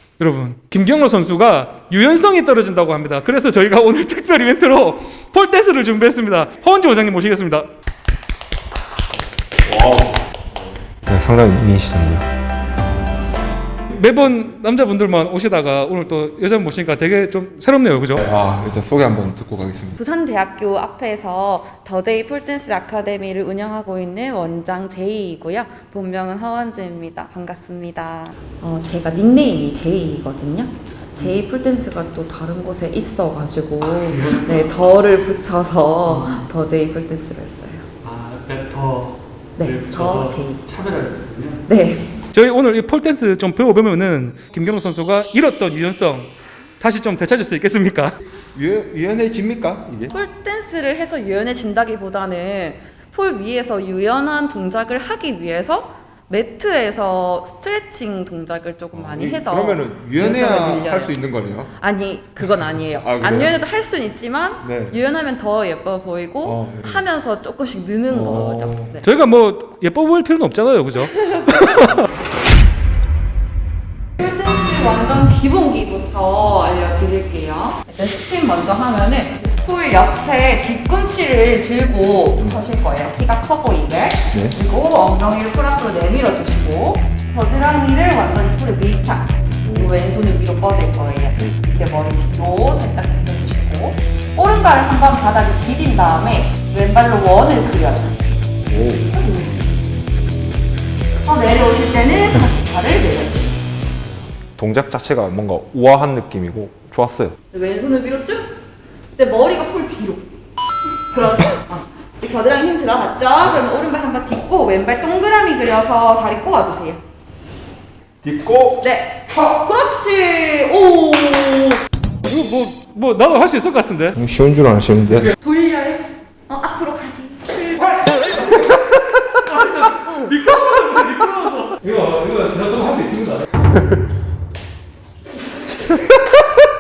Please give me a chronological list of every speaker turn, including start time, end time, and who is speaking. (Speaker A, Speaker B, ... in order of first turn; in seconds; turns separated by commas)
Speaker A: 0.2-7.7, Speaker B: 9.7-10.2, Speaker B: 11.1-12.3, Speaker A: 13.9-18.2, Speaker B: 18.2-20.0, Speaker C: 20.0-37.9, Speaker A: 33.9-34.6, Speaker A: 38.0-41.6, Speaker C: 39.6-40.7, Speaker C: 41.7-42.2, Speaker A: 42.3-48.2, Speaker B: 48.5-50.1, Speaker C: 50.1-61.2, Speaker B: 58.9-61.7, Speaker C: 61.7-69.0, Speaker B: 62.9-63.5, Speaker B: 64.6-65.0, Speaker B: 66.4-67.0, Speaker B: 68.1-68.9, Speaker A: 69.0-72.0, Speaker C: 74.2-98.2, Speaker B: 89.7-90.0, Speaker B: 98.7-99.1, Speaker C: 99.1-99.6, Speaker C: 101.2-103.6, Speaker B: 104.6-107.4, Speaker C: 107.5-108.5, Speaker C: 109.2-110.2, Speaker C: 111.1-117.0, Speaker B: 118.2-118.8, Speaker C: 118.8-121.8, Speaker A: 122.2-124.2, Speaker B: 124.2-125.3, Speaker C: 125.4-128.4, Speaker A: 127.8-133.5, Speaker B: 135.9-136.3